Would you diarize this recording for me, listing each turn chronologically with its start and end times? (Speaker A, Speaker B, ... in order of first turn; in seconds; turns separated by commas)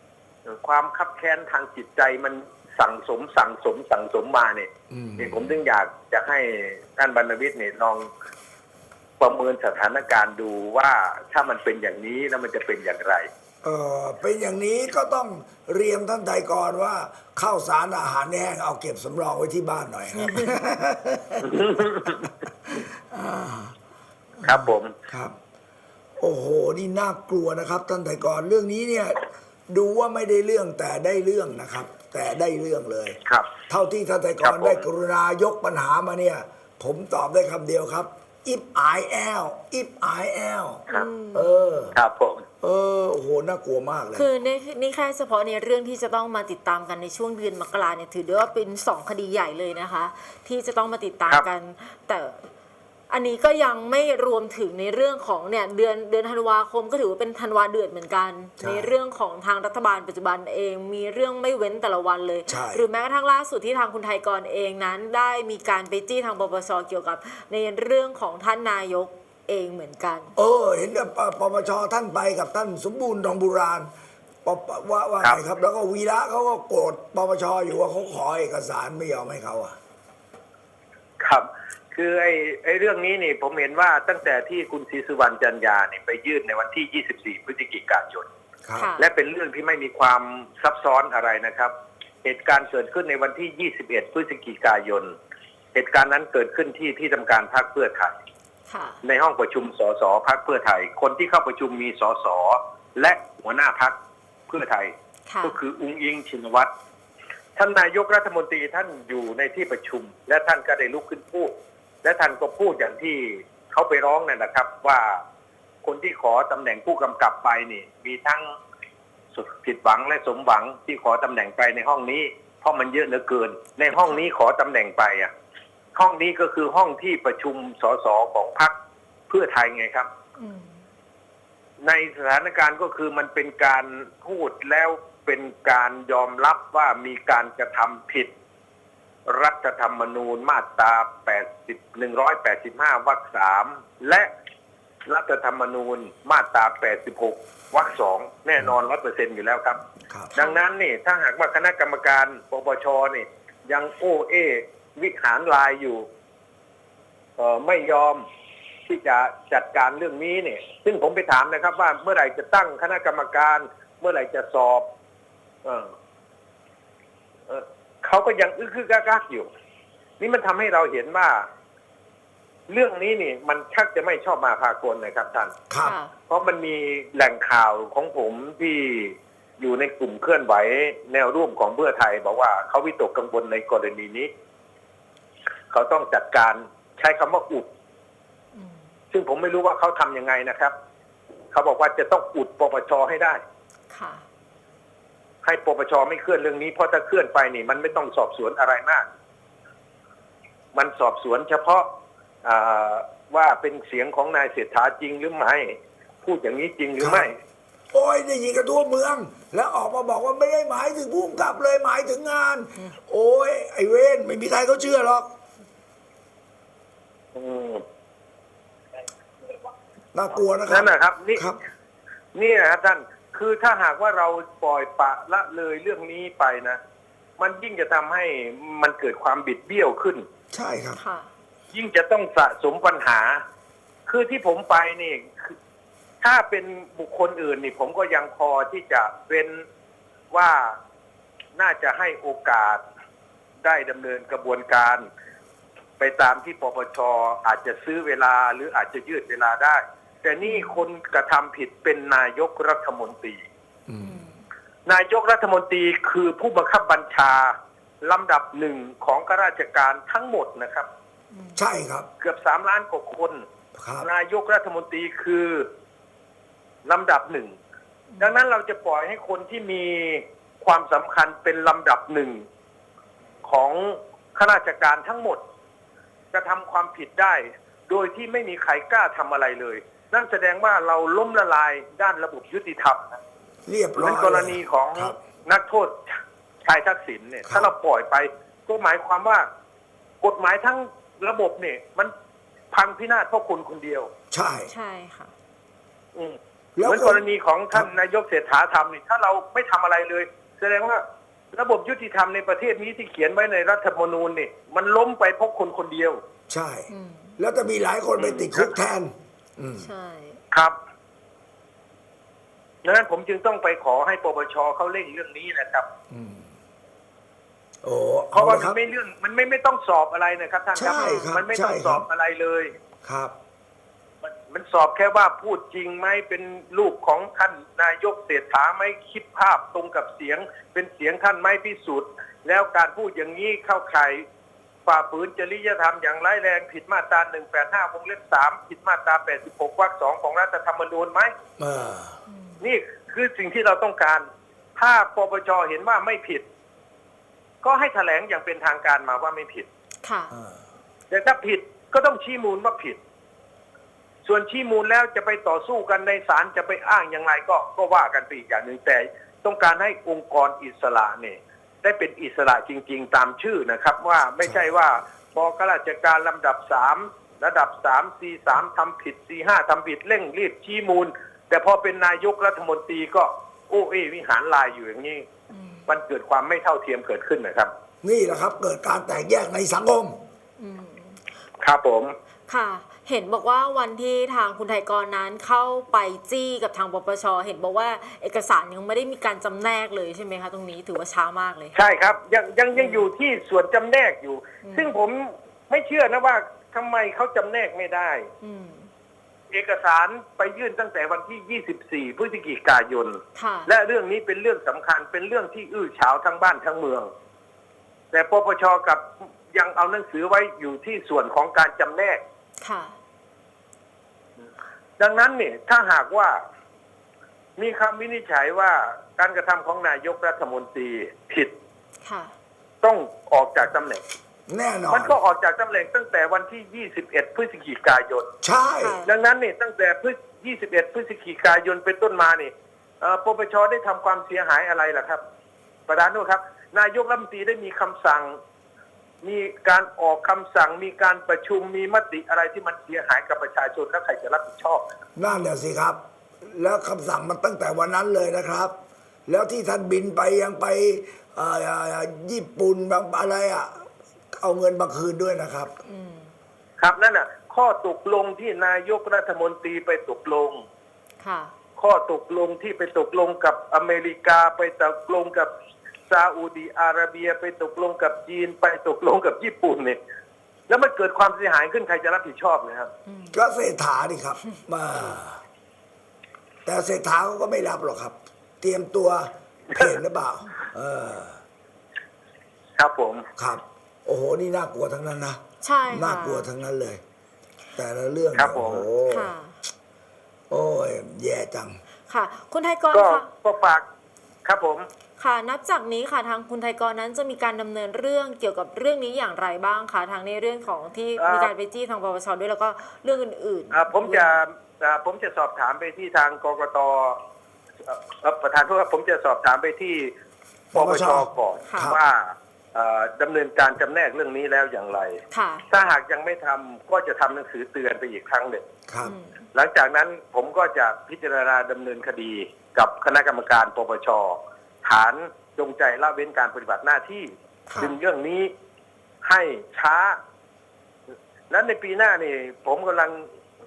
Speaker A: 0.4-8.1, Speaker B: 4.9-5.6, Speaker A: 9.2-13.3, Speaker B: 13.6-23.8, Speaker A: 21.4-22.3, Speaker B: 24.4-25.4, Speaker A: 24.4-24.9, Speaker B: 26.2-33.2, Speaker B: 33.7-41.9, Speaker A: 34.4-34.8, Speaker C: 40.9-41.8, Speaker A: 41.9-42.4, Speaker B: 42.6-44.3, Speaker C: 44.1-52.4, Speaker C: 53.1-70.3, Speaker B: 58.6-58.9, Speaker B: 62.5-62.8, Speaker B: 70.3-73.9, Speaker B: 74.4-79.8, Speaker A: 81.2-88.3, Speaker B: 88.6-88.9, Speaker C: 88.8-89.0, Speaker A: 89.0-91.7, Speaker A: 92.2-95.1, Speaker A: 95.7-98.1, Speaker C: 98.7-99.0, Speaker A: 99.0-104.0, Speaker A: 104.5-106.7, Speaker C: 105.3-105.6, Speaker A: 107.6-111.5, Speaker A: 112.0-115.2, Speaker A: 115.8-118.5, Speaker A: 119.3-125.3, Speaker C: 124.0-124.2, Speaker A: 126.0-128.7, Speaker A: 129.3-130.1, Speaker C: 130.4-130.7, Speaker A: 131.8-138.3, Speaker A: 139.2-144.3, Speaker A: 145.1-149.8, Speaker A: 150.3-156.1, Speaker A: 157.4-158.2, Speaker A: 158.8-164.8, Speaker A: 165.6-165.9, Speaker A: 167.5-169.5, Speaker A: 170.2-171.5, Speaker A: 172.7-175.5, Speaker B: 175.7-176.0, Speaker C: 175.8-176.1, Speaker A: 176.3-184.3, Speaker A: 185.7-187.7, Speaker C: 188.5-188.8, Speaker A: 189.1-190.7, Speaker A: 191.5-193.4, Speaker C: 193.9-194.2, Speaker A: 195.4-199.1, Speaker A: 200.7-201.9, Speaker A: 202.4-207.3, Speaker B: 207.0-207.3, Speaker B: 207.9-215.3, Speaker A: 217.3-217.8, Speaker B: 220.1-221.6, Speaker A: 220.7-221.4, Speaker A: 222.3-226.8, Speaker A: 227.4-230.2, Speaker B: 230.5-231.0, Speaker C: 231.0-231.3, Speaker A: 231.7-233.4, Speaker A: 234.1-235.6, Speaker A: 236.2-239.6, Speaker A: 240.3-240.8, Speaker A: 241.6-242.8, Speaker A: 243.6-245.1, Speaker A: 246.0-253.4, Speaker C: 250.4-250.8, Speaker B: 253.9-254.2, Speaker C: 254.0-254.4, Speaker A: 254.9-260.9, Speaker C: 261.3-261.6, Speaker B: 261.6-262.1, Speaker A: 262.2-263.4, Speaker B: 263.7-264.1, Speaker A: 264.0-265.7, Speaker A: 266.9-267.5, Speaker C: 268.1-268.4, Speaker A: 268.2-272.4, Speaker A: 273.4-275.4, Speaker A: 276.3-283.2, Speaker B: 283.6-285.2, Speaker A: 283.9-289.4, Speaker B: 287.4-287.7, Speaker A: 290.2-292.1, Speaker A: 292.7-294.1, Speaker B: 294.3-294.7, Speaker C: 294.7-295.3, Speaker A: 296.1-306.2, Speaker B: 296.8-297.9, Speaker B: 306.5-309.9, Speaker C: 306.9-307.4, Speaker A: 308.2-308.8, Speaker C: 309.8-310.4, Speaker A: 312.8-315.9, Speaker B: 316.1-316.5, Speaker B: 317.8-318.8, Speaker A: 318.3-322.7, Speaker B: 320.8-322.1, Speaker C: 320.9-321.3, Speaker B: 323.0-323.3, Speaker A: 324.3-334.2, Speaker A: 334.9-341.3, Speaker B: 341.6-342.2, Speaker C: 342.3-342.6, Speaker A: 342.6-346.4, Speaker A: 347.6-349.7, Speaker C: 350.0-350.3, Speaker B: 350.3-350.6, Speaker A: 351.1-353.0, Speaker A: 354.2-375.3, Speaker C: 375.5-375.9, Speaker A: 375.9-377.7, Speaker B: 378.0-380.2, Speaker C: 380.6-381.2, Speaker A: 381.6-382.1, Speaker C: 382.5-391.7, Speaker A: 391.7-398.3, Speaker C: 392.7-393.1, Speaker C: 394.6-394.9, Speaker C: 398.4-398.9, Speaker A: 399.5-407.1, Speaker C: 403.4-403.7, Speaker A: 408.1-412.2, Speaker C: 412.6-412.9, Speaker A: 415.0-416.4, Speaker A: 417.6-421.5, Speaker C: 422.0-422.3, Speaker A: 422.8-424.0, Speaker B: 424.5-425.1, Speaker A: 424.9-428.3, Speaker B: 428.4-429.0, Speaker C: 428.8-429.1, Speaker A: 429.0-435.2, Speaker A: 435.9-438.4, Speaker A: 439.2-444.8, Speaker B: 445.1-448.7, Speaker B: 449.3-455.7, Speaker C: 455.8-456.3, Speaker A: 456.8-460.6, Speaker C: 461.2-461.5, Speaker A: 461.8-465.5, Speaker A: 466.1-470.0, Speaker A: 470.7-472.9, Speaker C: 473.1-473.4, Speaker B: 473.3-475.4, Speaker B: 476.6-481.4, Speaker A: 482.8-483.3, Speaker B: 483.4-487.0, Speaker C: 485.6-486.5, Speaker B: 487.8-489.3, Speaker A: 488.3-488.9, Speaker C: 489.1-489.5, Speaker B: 490.5-491.8, Speaker C: 492.1-493.3, Speaker A: 492.9-493.9, Speaker A: 494.4-494.9, Speaker C: 495.2-504.4, Speaker A: 501.2-501.5, Speaker A: 503.7-507.2, Speaker A: 507.9-510.1, Speaker B: 510.7-512.0, Speaker A: 510.7-518.6, Speaker C: 511.7-511.9, Speaker C: 515.3-515.6, Speaker B: 518.9-519.1, Speaker C: 519.0-519.4, Speaker A: 519.5-528.5, Speaker C: 527.7-527.9, Speaker A: 529.2-530.2, Speaker A: 531.5-533.3